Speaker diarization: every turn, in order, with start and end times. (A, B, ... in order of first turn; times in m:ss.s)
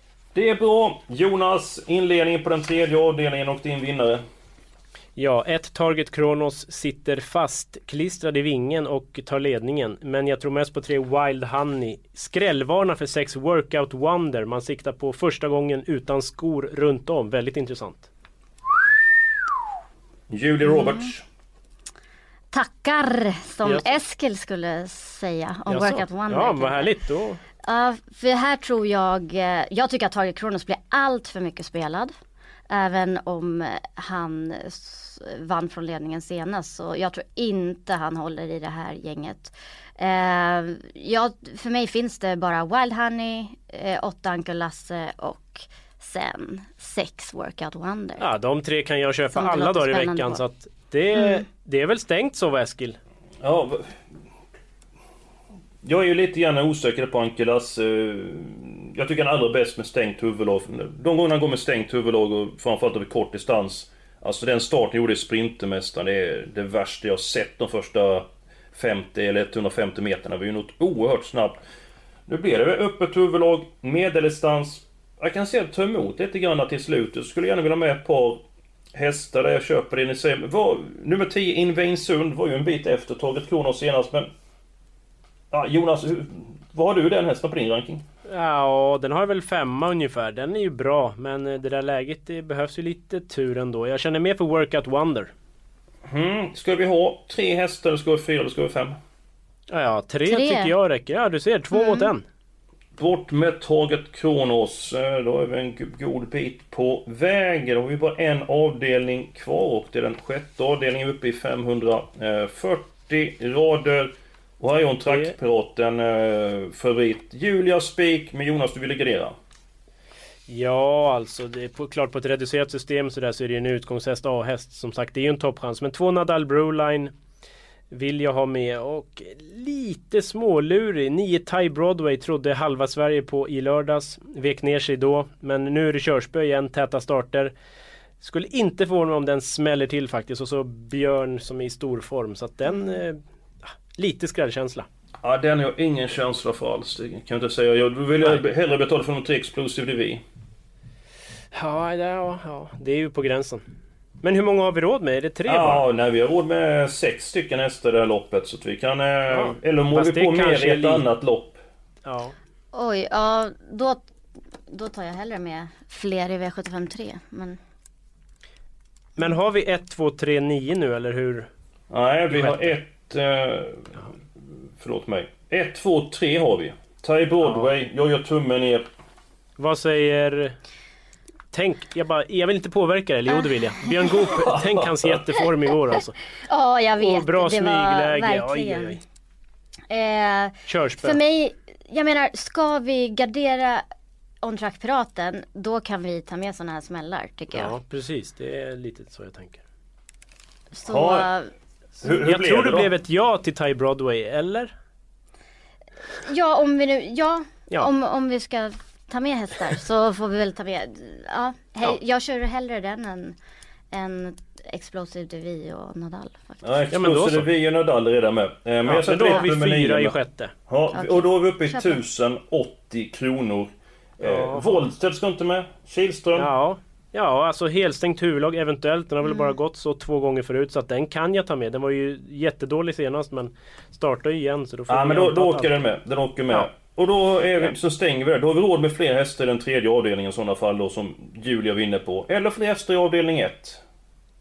0:00.4-0:04.2 A
0:05.2-0:18.1 B
0:20.3-0:21.2 A
0:20.7-0:21.0 C
0:22.5-0:26.9 C
0:23.6-0:23.9 B
0:25.7-0:27.4 B
0:27.6-0:32.1 C
0:32.7-0:48.3 C
0:48.2-0:53.0 B
0:49.3-0:50.4 C
0:51.2-0:51.4 C
0:53.4-0:54.0 A
0:55.8-1:11.6 A
1:12.3-1:18.4 A
1:18.9-1:24.3 A
1:25.5-1:28.0 A
1:28.3-1:35.3 B
1:36.1-1:39.0 A
1:39.7-1:42.2 B
1:40.3-1:40.7 C
1:41.7-1:42.1 C
1:43.0-1:59.4 A
1:55.1-1:55.3 B
2:00.5-2:07.1 B
2:07.9-2:17.5 B
2:18.2-2:24.9 B
2:25.2-2:30.2 A
2:31.5-2:33.6 B
2:34.2-2:35.9 B
2:35.5-2:41.6 A
2:39.3-2:41.0 B
2:42.0-2:42.4 B
2:42.7-2:44.0 C
2:44.7-2:47.6 C
2:49.2-2:51.5 B
2:51.9-2:54.0 A
2:52.3-2:52.8 B
2:54.8-2:58.9 A
2:57.4-2:57.7 B
2:59.6-3:00.6 B
3:01.5-3:06.2 B
3:03.3-3:03.9 C
3:04.4-3:05.2 A
3:06.5-3:09.0 C
3:07.0-3:09.0 B
3:09.9-3:13.8 C
3:10.7-3:11.2 B
3:14.4-3:17.7 C
3:17.5-3:19.6 B
3:20.8-3:21.5 C
3:20.9-3:21.3 A
3:22.0-3:22.9 A
3:22.2-3:24.7 B
3:26.2-3:33.4 C
3:33.9-3:36.6 C
3:36.6-3:46.5 A
3:36.9-3:37.5 B
3:38.8-3:40.5 B
3:40.9-3:42.0 C
3:44.2-3:44.9 B
3:46.4-3:55.8 B
3:49.2-3:49.5 C
3:54.9-4:03.8 A